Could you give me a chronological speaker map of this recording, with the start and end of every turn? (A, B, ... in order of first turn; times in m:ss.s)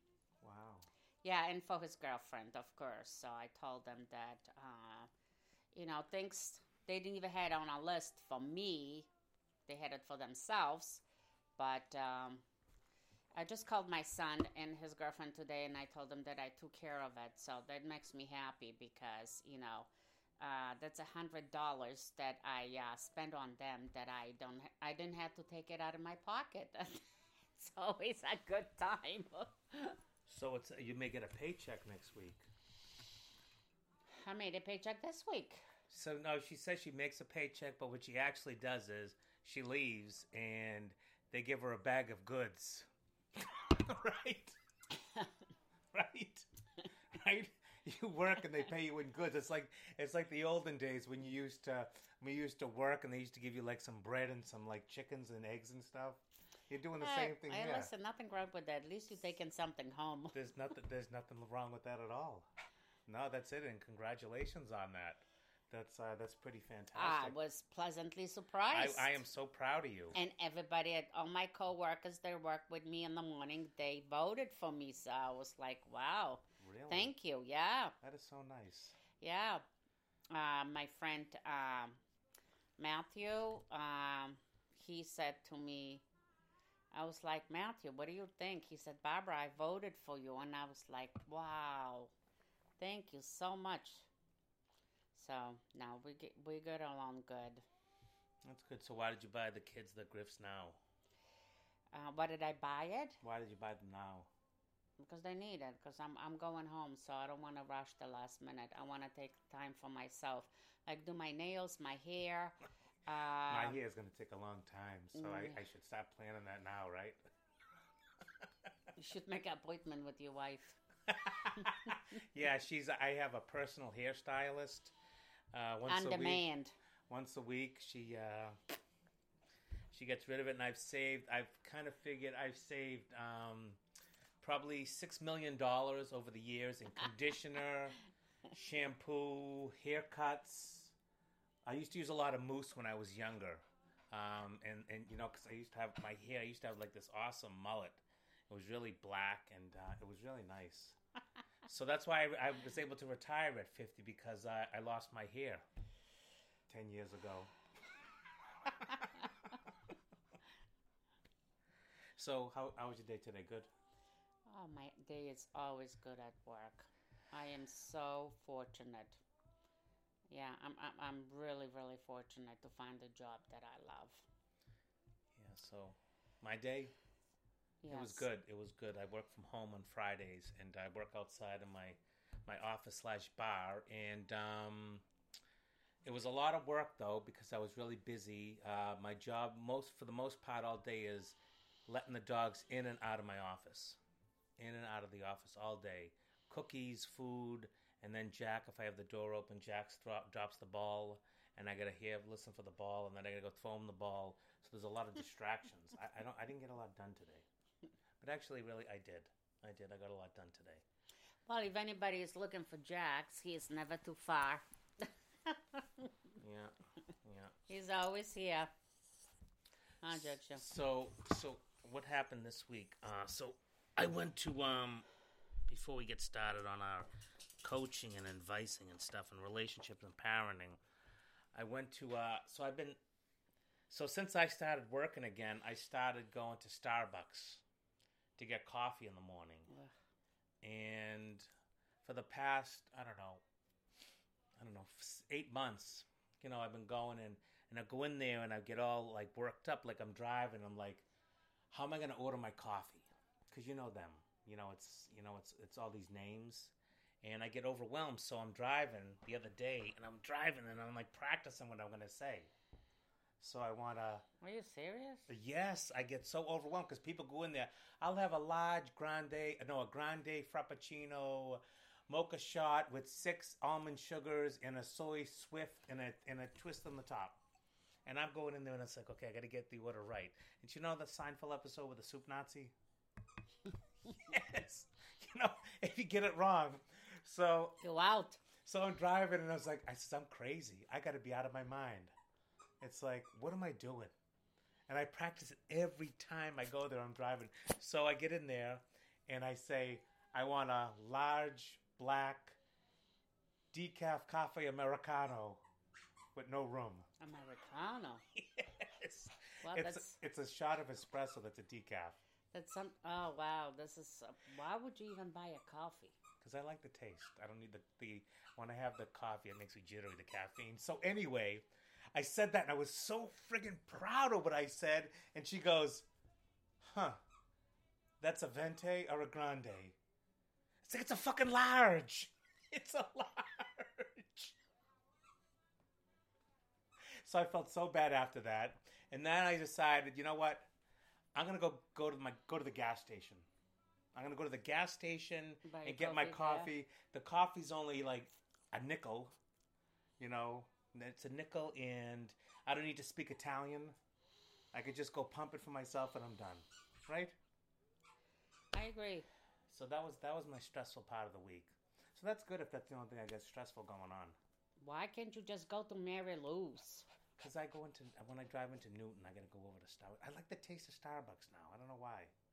0:00.4-0:00.9 A
0:01.2-0:05.1 B
0:05.7-0:09.1 B
0:09.7-0:11.0 B
0:11.6-0:12.4 B
0:13.4-0:19.9 B
0:20.4-0:27.0 B
0:27.6-0:30.0 B
0:30.3-0:32.5 A
0:34.1-0:35.6 B
0:35.9-0:44.6 A
0:45.9-0:46.5 A
0:47.1-0:57.9 A
0:57.0-1:00.4 B
1:00.3-1:02.5 A
1:03.1-1:07.4 A
1:07.0-1:09.2 B
1:08.7-1:10.2 A
1:10.1-1:18.0 B
1:16.6-1:17.1 A
1:18.0-1:19.0 A
1:19.2-1:19.6 B
1:20.3-1:22.0 B
1:22.8-1:26.0 B
1:26.9-1:32.1 B
1:32.8-1:34.1 B
1:35.2-1:37.6 B
1:38.4-1:40.8 A
1:41.9-1:43.2 B
1:43.2-1:44.3 A
1:45.0-1:53.8 B
1:53.5-1:57.2 A
1:55.2-1:55.6 B
1:59.0-2:00.8 B
2:01.1-2:04.9 A
2:01.6-2:02.0 B
2:05.5-2:06.4 A
2:05.9-2:06.7 B
2:07.1-2:08.6 A
2:09.9-2:13.8 A
2:14.4-2:18.0 A
2:18.5-2:20.9 A
2:21.7-2:31.0 A
2:31.7-2:35.6 A
2:36.7-2:37.5 A
2:38.8-2:39.3 A
2:42.2-2:43.7 A
2:44.5-2:49.2 B
2:50.3-2:54.3 B
2:55.3-2:56.9 A
2:57.8-2:58.2 B
2:57.9-3:05.0 A
3:06.0-3:14.0 A
3:14.6-3:27.4 A
3:28.2-3:30.8 A
3:31.5-3:36.1 B
3:36.4-3:37.6 A
3:37.7-3:38.7 B
3:40.0-3:40.6 B
3:40.1-3:45.1 A
3:45.7-3:47.1 A
3:47.6-3:50.8 A
3:51.5-3:53.0 A
3:53.9-3:57.6 A
3:58.4-3:59.7 A
4:00.6-4:01.5 A
4:02.0-4:03.4 A
4:04.6-4:11.1 A
4:11.7-4:22.5 A
4:23.4-4:24.2 A
4:24.4-4:25.3 B
4:25.3-4:37.4 A
4:38.1-4:42.7 A
4:44.3-4:47.8 A
4:47.8-4:48.4 B
4:48.6-4:52.1 A
4:52.8-4:54.1 A
4:54.9-5:02.6 A
5:03.7-5:05.6 A
5:06.4-5:07.1 A
5:07.2-5:08.2 B
5:08.3-5:12.2 A
5:09.6-5:10.2 B
5:12.5-5:16.2 B
5:16.4-5:26.1 A
5:26.8-5:27.2 A
5:28.2-5:30.0 A
5:30.8-5:34.6 A
5:37.2-5:40.7 A
5:41.4-5:43.5 A
5:44.1-5:49.4 A
5:45.6-5:46.7 B
5:50.2-5:54.0 A
5:54.7-5:57.4 A
5:58.7-5:59.3 B
5:59.7-6:04.4 A
6:04.8-6:07.1 B
6:07.4-6:12.3 A